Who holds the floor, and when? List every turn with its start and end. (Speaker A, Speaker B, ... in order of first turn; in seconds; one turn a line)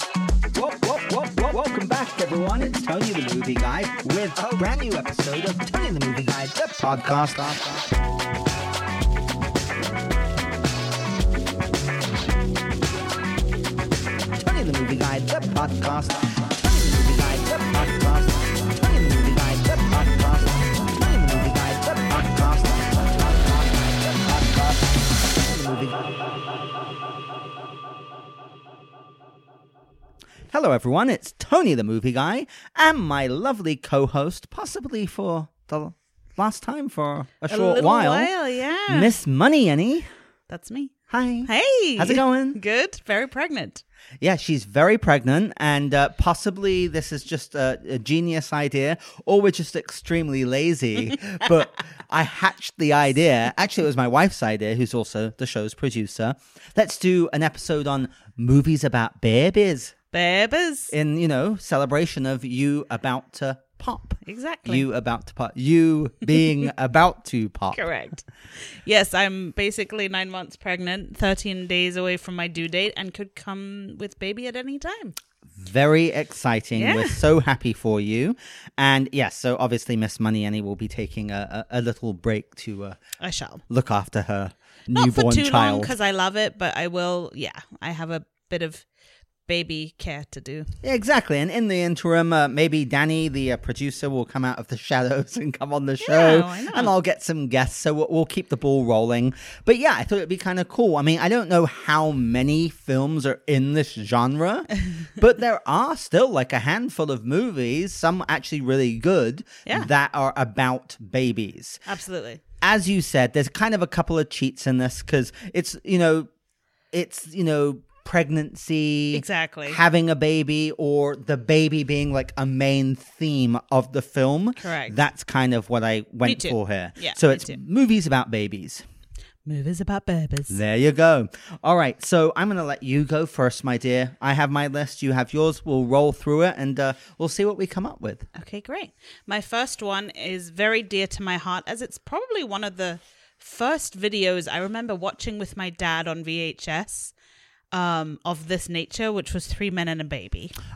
Speaker A: 0.5-7.9
Speaker A: 14.4-25.9
Speaker A: 30.5-38.3
Speaker B: 37.5-39.1
Speaker A: 38.9-40.1
Speaker B: 40.5-40.9
Speaker A: 41.1-42.6
Speaker B: 41.5-43.8
Speaker A: 44.2-59.9
Speaker B: 60.1-60.9
Speaker A: 60.9-67.8
Speaker B: 64.2-64.8
Speaker B: 67.7-75.2
Speaker A: 75.5-83.0
Speaker B: 76.7-77.2
Speaker B: 83.2-83.6
Speaker A: 83.7-85.9
Speaker B: 84.9-88.8
Speaker B: 89.5-90.7
Speaker A: 90.8-111.8
Speaker B: 96.0-96.9
Speaker B: 111.8-112.4
Speaker A: 112.6-116.3
Speaker A: 116.9-128.8
Speaker B: 119.1-119.8
Speaker B: 124.6-124.9
Speaker B: 126.2-127.6
Speaker B: 129.4-130.6
Speaker A: 130.5-138.3
Speaker B: 138.3-147.1
Speaker B: 147.7-150.5